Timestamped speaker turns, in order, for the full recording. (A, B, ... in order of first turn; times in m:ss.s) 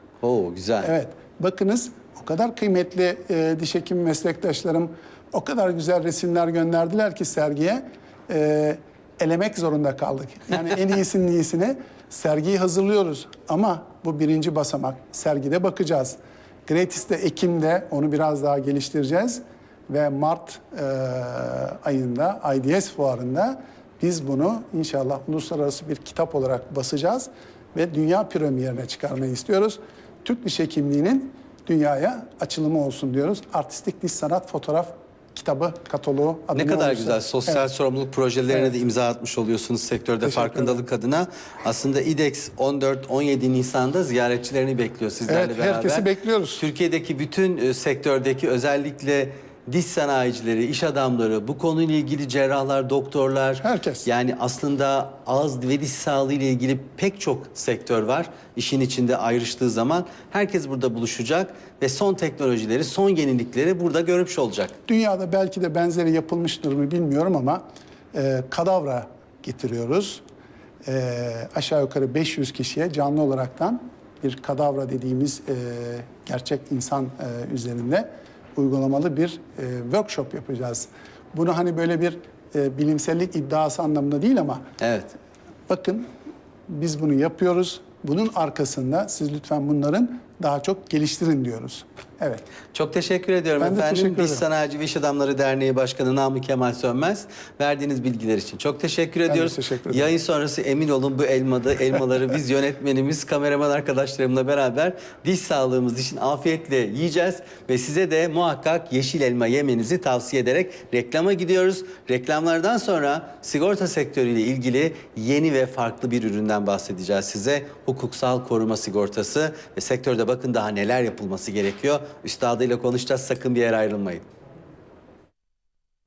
0:00.2-0:00.9 A
0:00.8-0:37.6 B
0:36.5-0:46.1 A
0:40.2-0:40.8 B
0:45.3-0:46.6 B
0:46.6-1:04.7 A
0:53.6-0:54.0 B
1:04.9-1:10.2 B
1:10.8-1:24.6 B
1:24.8-1:25.1 A
1:25.7-1:26.1 B
1:26.7-1:32.4 B
1:32.7-2:04.2 A
1:33.6-1:34.4 B
1:39.3-1:40.1 B